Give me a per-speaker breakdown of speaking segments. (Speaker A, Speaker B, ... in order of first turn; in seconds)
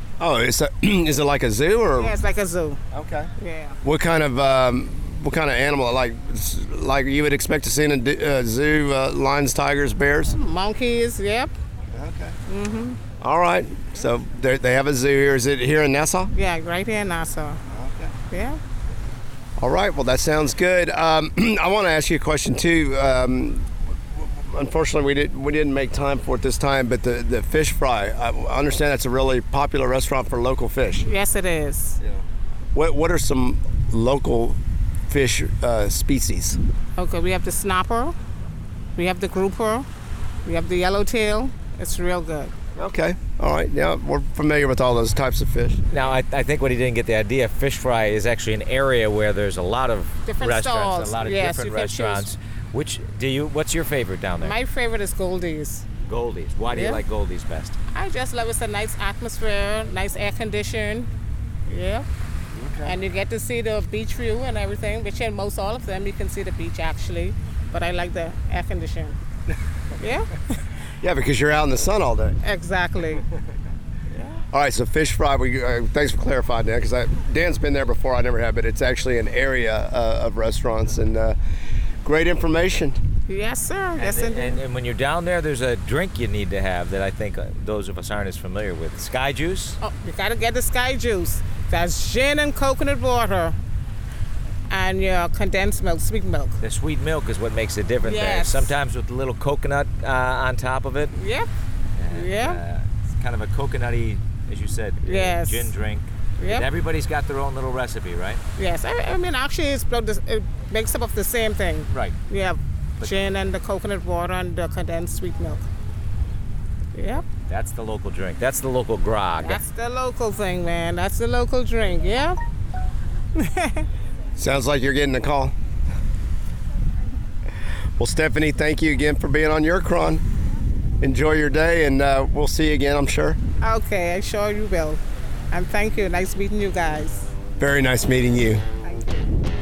Speaker A: 0.2-2.1, 2.9-3.3, 3.8-10.3, 11.9-12.4, 13.2-16.3, 17.7-18.1, 19.6-31.1, 32.8-36.6, 42.8-45.8, 62.5-63.0, 71.0-72.4, 74.5-81.4, 82.0-83.0, 124.4-125.5, 128.0-130.2, 131.0-133.4, 137.6-138.6
Speaker B: 2.0-2.8, 3.4-3.8, 10.3-11.5, 12.5-13.0, 16.3-17.6, 18.3-18.6, 31.0-32.0, 37.0-38.1, 39.0-39.9, 40.5-42.5, 50.3-52.3, 54.4-55.9, 56.7-57.0, 57.9-61.1, 61.7-62.1, 62.8-69.2, 70.0-70.6, 72.4-73.2, 74.1-74.4, 83.3-84.6, 89.8-93.6, 94.7-96.6, 98.0-98.7, 101.1-101.5, 102.1-102.6, 105.0-105.7, 106.4-106.7, 108.6-115.7, 117.0-117.3, 119.4-122.4, 123.4-123.9, 133.6-137.3, 138.8-139.3
Speaker C: 45.9-54.5, 56.0-57.8, 84.0-89.8, 96.6-101.1, 102.0-108.4, 111.9-112.2, 117.5-119.6